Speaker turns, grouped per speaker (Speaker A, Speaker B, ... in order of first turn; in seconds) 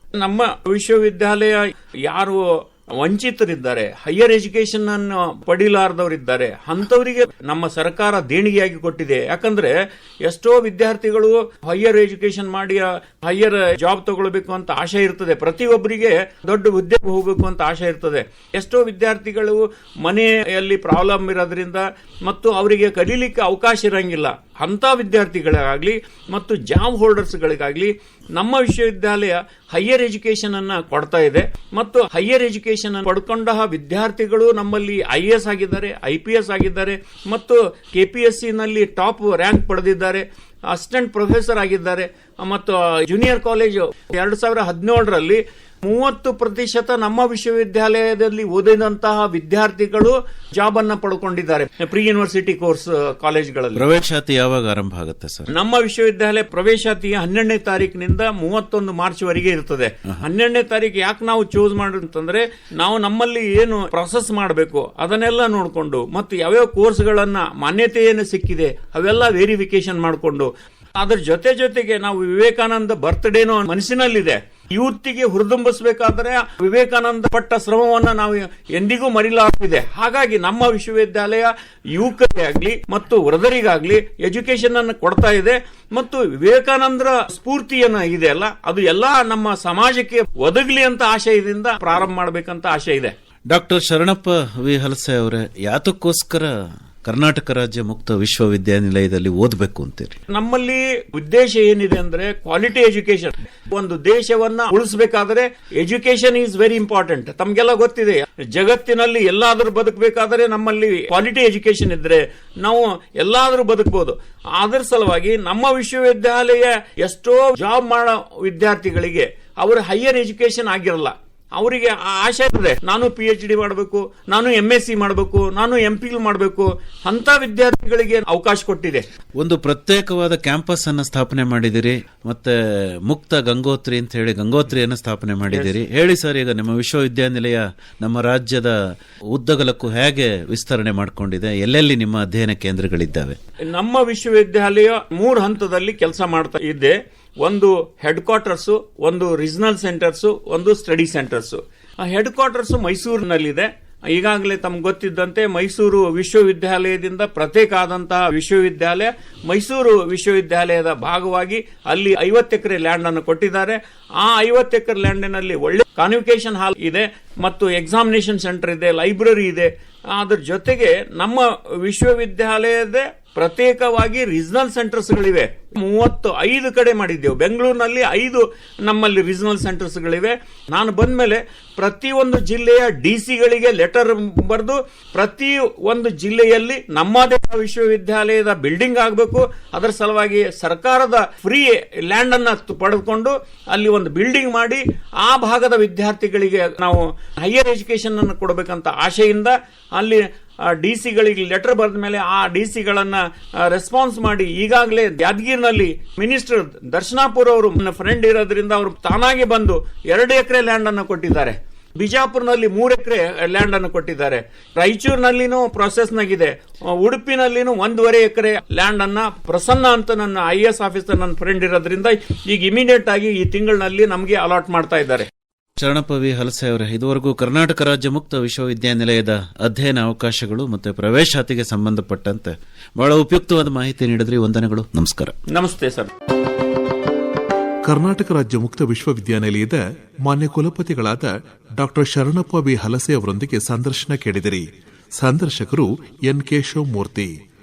Speaker A: 0.2-2.4, 3.0-53.9, 55.5-93.1, 100.3-129.1, 135.5-135.8, 143.7-225.3, 235.5-236.1
Speaker B: 53.8-55.5, 93.5-96.5, 97.0-100.2, 129.4-138.8, 139.3-143.4, 225.8-235.4
Speaker C: 237.8-247.3